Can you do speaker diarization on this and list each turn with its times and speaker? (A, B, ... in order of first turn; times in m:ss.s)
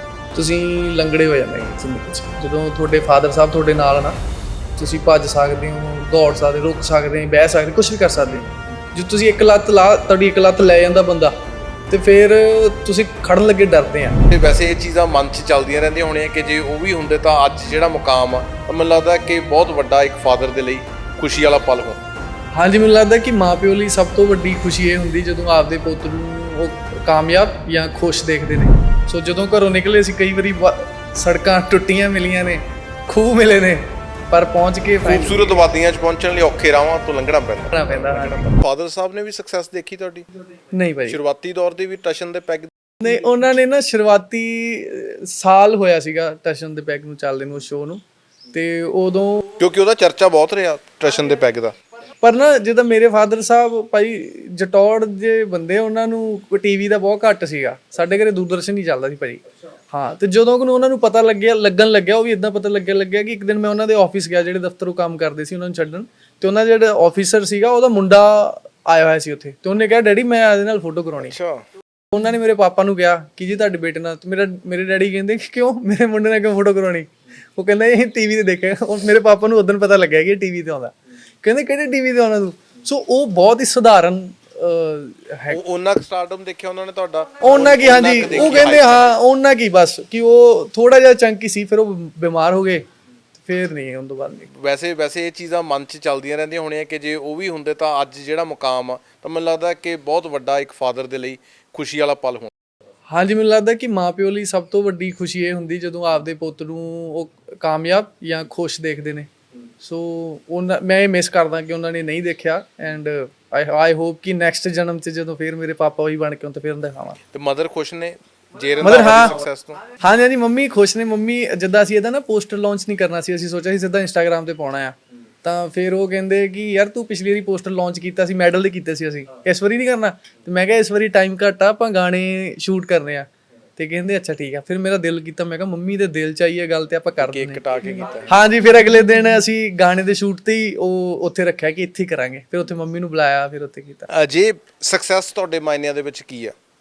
0:00.3-0:04.1 A
0:04.8-0:11.3 A
0:11.9-0:14.2 A
0:14.3-0:22.0 B
0:22.5-0:35.6 A
0:35.0-0:40.3 B
0:37.7-0:38.6 A
0:40.7-0:41.2 A
0:41.1-0:42.7 B
0:43.0-0:48.0 A
0:48.5-0:49.4 A
0:49.6-0:51.7 B
0:52.2-1:11.4 A
1:11.2-1:11.6 B
1:12.1-1:25.6 A
1:25.5-1:29.1 B
1:27.4-1:32.8 A
1:33.4-1:34.5 A
1:34.5-1:42.5 B
1:43.1-1:49.3 A
1:49.8-1:57.2 A
1:57.3-1:59.8 B
1:58.8-1:59.4 A
1:59.9-2:17.6 A
2:17.2-2:18.3 B
2:18.2-2:24.1 A
2:24.1-2:26.5 B